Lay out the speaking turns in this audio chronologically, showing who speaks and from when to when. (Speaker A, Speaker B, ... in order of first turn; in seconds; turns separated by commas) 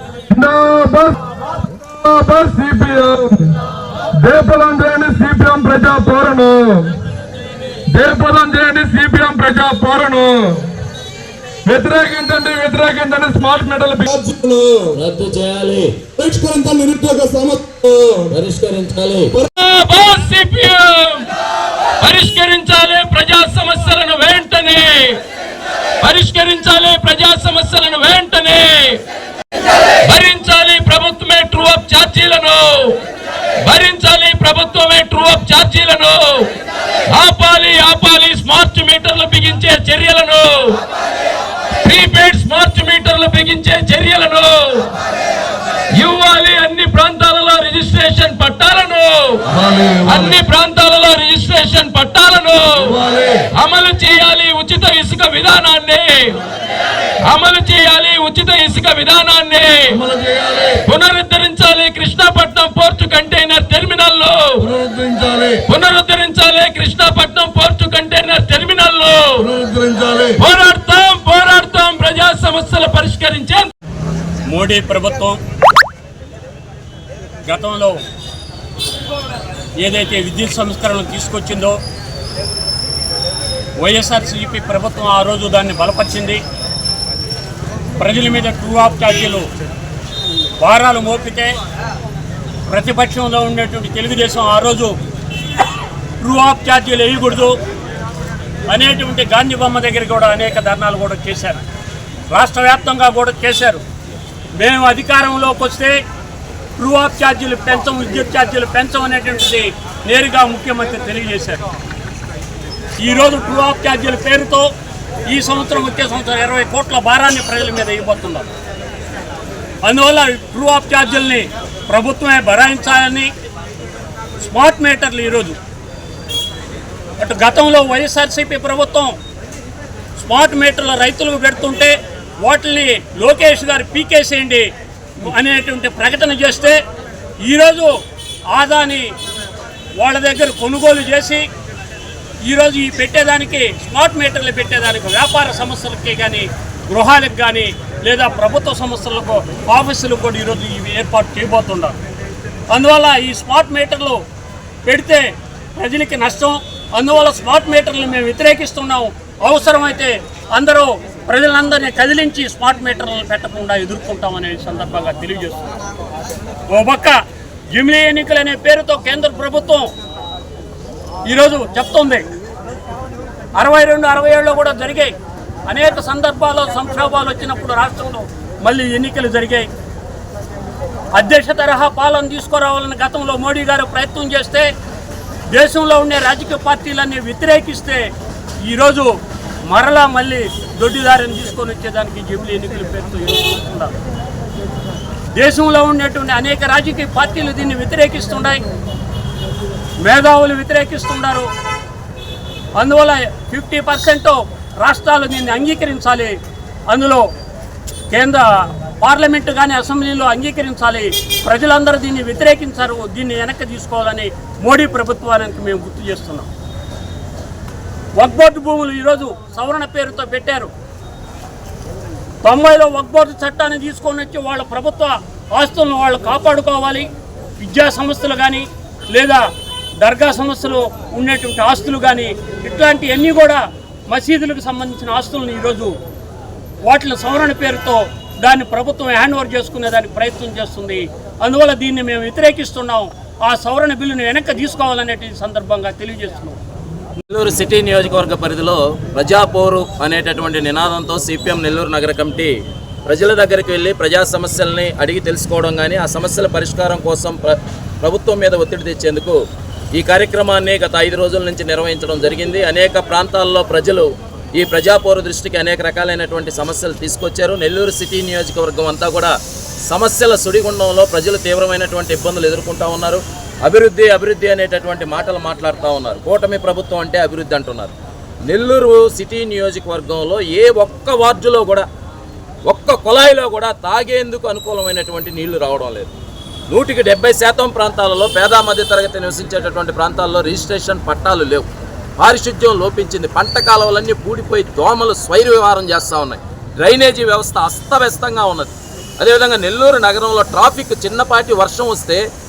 Speaker A: 0.3-1.2, Speaker A: 1.9-3.6, Speaker A: 4.2-7.0, Speaker A: 7.9-10.7, Speaker A: 11.7-14.8, Speaker B: 14.9-16.1, Speaker A: 16.2-18.3, Speaker B: 18.3-19.4, Speaker C: 19.6-21.3, Speaker C: 22.0-25.2, Speaker C: 26.0-29.0, Speaker C: 30.0-33.0, Speaker C: 33.6-36.5, Speaker C: 37.1-40.8, Speaker C: 41.8-44.9, Speaker C: 45.9-56.4, Speaker A: 49.6-50.3, Speaker A: 52.9-53.5, Speaker C: 57.2-60.0, Speaker A: 60.0-60.8, Speaker C: 60.9-64.8, Speaker A: 64.6-65.6, Speaker C: 65.6-69.5, Speaker A: 69.4-70.4, Speaker C: 70.3-73.7, Speaker D: 74.4-75.4, Speaker D: 77.5-78.0, Speaker D: 79.8-81.8, Speaker D: 83.8-86.4, Speaker D: 88.0-89.5, Speaker D: 90.6-91.6, Speaker D: 92.7-95.0, Speaker D: 96.2-97.6, Speaker D: 98.7-101.6, Speaker D: 102.3-103.8, Speaker D: 104.5-106.0, Speaker D: 106.8-111.6, Speaker D: 113.0-114.7, Speaker D: 115.3-118.5, Speaker D: 119.8-123.3, Speaker D: 124.4-125.6, Speaker D: 127.2-129.2, Speaker D: 130.2-136.8, Speaker D: 137.4-139.2, Speaker D: 140.0-141.5, Speaker D: 142.4-152.0, Speaker D: 152.7-154.2, Speaker D: 154.8-165.7, Speaker D: 166.7-167.2, Speaker D: 167.7-169.9, Speaker D: 171.3-172.3, Speaker D: 173.6-175.1, Speaker D: 175.7-179.7, Speaker D: 181.1-184.7, Speaker D: 185.5-189.1, Speaker D: 189.7-193.9, Speaker D: 195.3-198.6, Speaker D: 200.0-201.5, Speaker D: 202.8-207.3, Speaker D: 208.1-216.5, Speaker D: 218.2-220.7, Speaker D: 222.4-236.0, Speaker D: 236.8-246.6, Speaker B: 247.3-252.5, Speaker B: 253.1-259.4, Speaker B: 260.0-269.3, Speaker B: 269.9-277.9, Speaker B: 278.5-281.9, Speaker B: 282.7-286.1, Speaker B: 286.7-291.7, Speaker B: 292.2-302.2